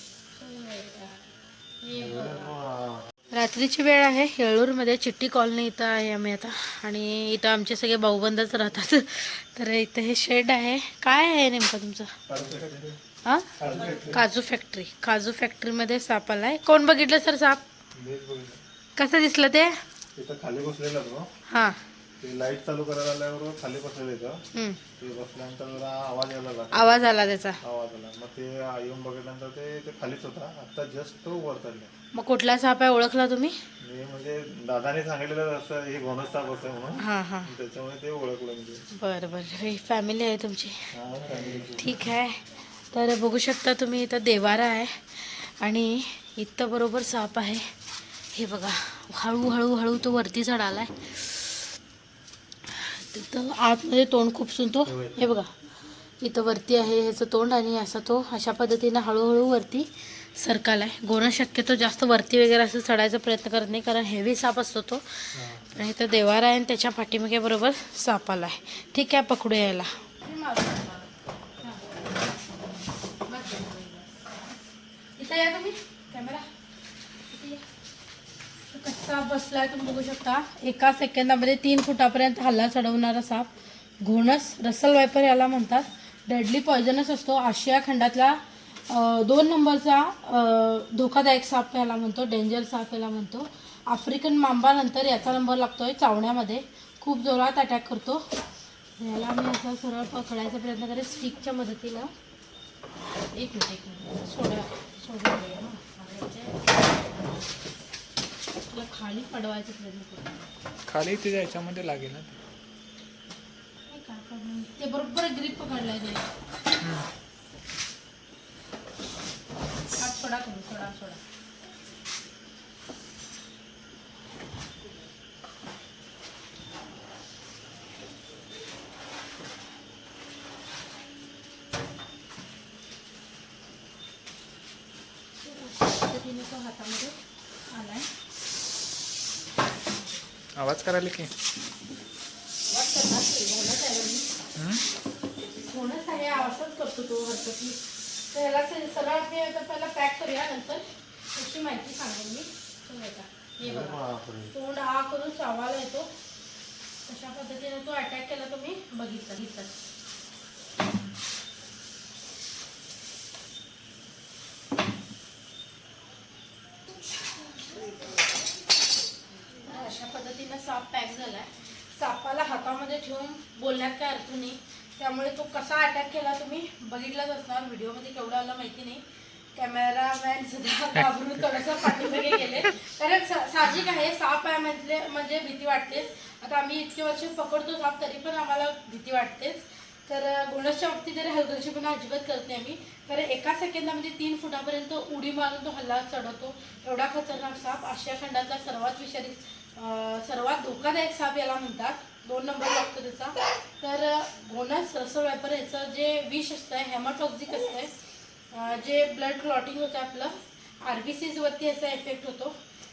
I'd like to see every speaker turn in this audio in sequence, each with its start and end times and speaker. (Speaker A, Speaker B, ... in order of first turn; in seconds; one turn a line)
Speaker A: 0.3-1.2
Speaker A: 1.8-2.6
Speaker B: 1.9-3.0
Speaker A: 3.3-12.2
Speaker B: 12.3-12.9
Speaker A: 13.2-17.6
Speaker B: 13.6-14.2
Speaker B: 17.9-18.6
Speaker A: 18.9-19.8
Speaker B: 20.1-21.3
Speaker A: 21.5-21.8
Speaker B: 22.2-24.4
Speaker A: 24.5-24.8
Speaker B: 25.0-26.9
Speaker A: 26.7-27.6
Speaker B: 27.6-31.9
Speaker A: 32.1-33.6
Speaker B: 33.8-38.8
Speaker A: 37.0-37.5
Speaker A: 38.9-40.9
Speaker B: 40.9-42.0
Speaker A: 41.7-47.7
Speaker A: 48.3-51.5
Speaker A: 52.7-55.5
Speaker B: 54.9-55.3
Speaker A: 56.2-72.0
Speaker B: 65.3-65.6
Speaker A: 73.2-74.4
Speaker A: 75.2-76.5
Speaker A: 77.3-77.6
Speaker A: 78.7-98.3
Speaker A: 99.0-102.1
Speaker A: 103.3-106.7
Speaker A: 108.7-110.4
Speaker C: 110.9-112.4
Speaker A: 113.9-116.3
Speaker C: 116.8-117.0
Speaker A: 120.0-121.2
Speaker A: 135.4-138.1
Speaker C: 140.6-141.3
Speaker A: 142.7-144.3
Speaker C: 144.6-144.8
Speaker A: 145.6-156.1
Speaker B: 153.6-154.5
Speaker A: 157.1-159.7
Speaker A: 169.6-207.9
Speaker A: 208.5-212.5